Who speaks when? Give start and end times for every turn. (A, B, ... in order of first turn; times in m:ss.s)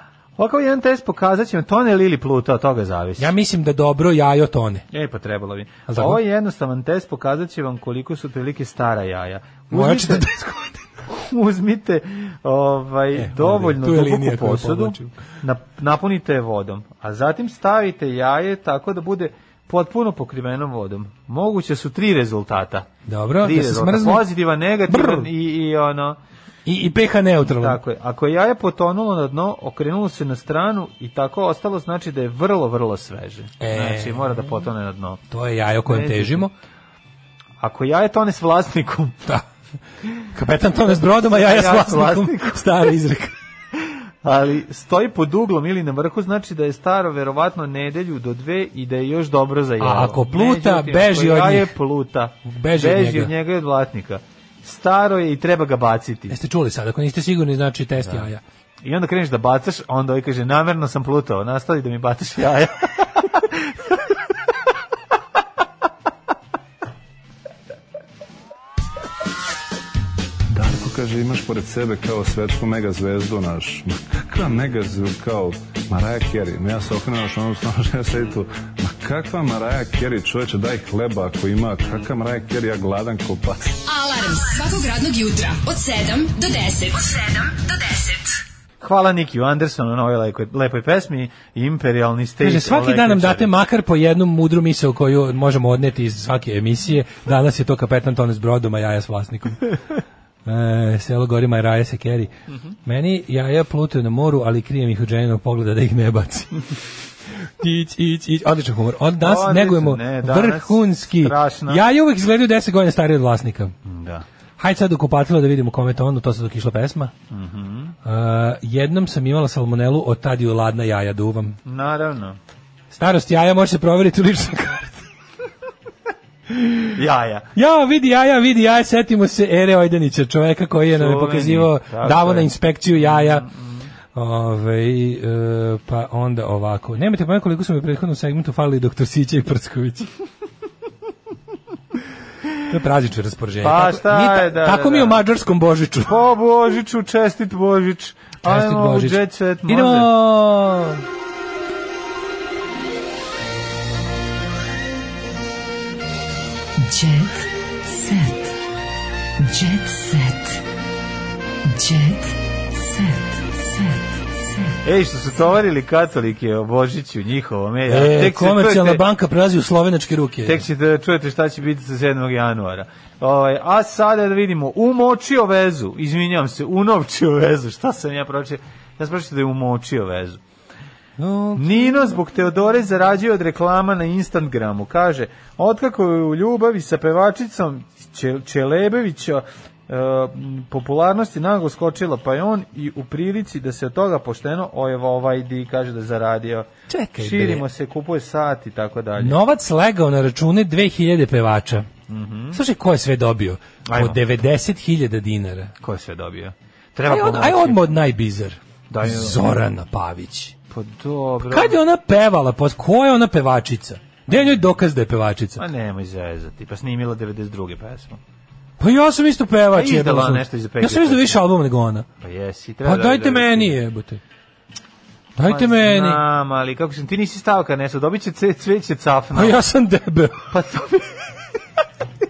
0:00.4-0:03.3 A
0:03.2-0:04.8 B
0:04.9-0:10.3 A
0:05.9-0:06.2 B
0:09.7-0:10.8 B
0:11.1-0:22.9 A
0:13.2-0:15.1 B
0:23.1-0:24.3 B
0:23.4-0:26.2 A
0:24.9-0:25.3 B
0:26.7-0:27.8 B
0:27.6-0:35.2 A
0:33.6-0:34.5 B
0:35.3-0:36.5 B
0:35.9-0:36.5 A
0:37.6-0:39.2 A
0:40.3-0:43.4 B
0:41.2-0:42.9 A
0:43.8-0:56.4 A
0:49.8-0:51.7 B
0:52.4-0:53.3 B
0:56.3-0:58.4 B
0:58.0-0:58.3 A
0:58.8-1:04.0 A
1:10.5-1:23.6 C
1:23.8-1:28.4 D
1:28.8-1:33.5 A
1:32.4-1:39.8 B
1:40.4-1:42.3 B
1:42.9-1:46.6 B
1:47.6-1:53.8 B
1:49.2-1:51.8 A
1:53.8-1:54.2 A
1:54.6-1:57.1 B
1:57.3-1:58.0 A
1:58.0-2:01.6 B
2:01.7-2:02.4 A
2:02.9-2:05.0 B
2:06.5-2:06.9 B
2:06.9-2:07.5 A
2:07.6-2:13.5 B
2:10.9-2:13.9 A
2:14.1-2:20.1 B
2:22.7-2:26.2 B
2:23.6-2:25.2 A
2:26.1-2:30.1 A
2:28.4-2:31.0 B
2:36.8-2:38.5 B
2:39.4-2:40.6 B
2:41.7-2:44.7 B
2:44.8-2:49.0 A
2:47.9-2:50.6 B
2:50.4-3:00.4 A
3:01.2-3:02.2 B
3:01.6-3:19.4 A
3:16.9-3:17.6 B
3:19.2-3:21.9 B
3:22.1-3:22.6 A
3:22.5-3:25.7 B
3:23.9-3:24.2 A
3:25.8-3:27.8 A
3:27.1-3:30.6 B
3:28.9-3:29.6 A
3:30.7-3:31.8 A
3:31.4-3:35.6 B
3:35.6-3:38.2 A
3:38.8-3:42.1 B
3:39.7-3:41.4 A
3:42.2-3:43.8 A
3:42.8-3:44.2 B
3:45.4-3:46.2 B
3:45.4-3:49.6 A
3:49.3-3:50.5 B
3:50.5-3:51.4 A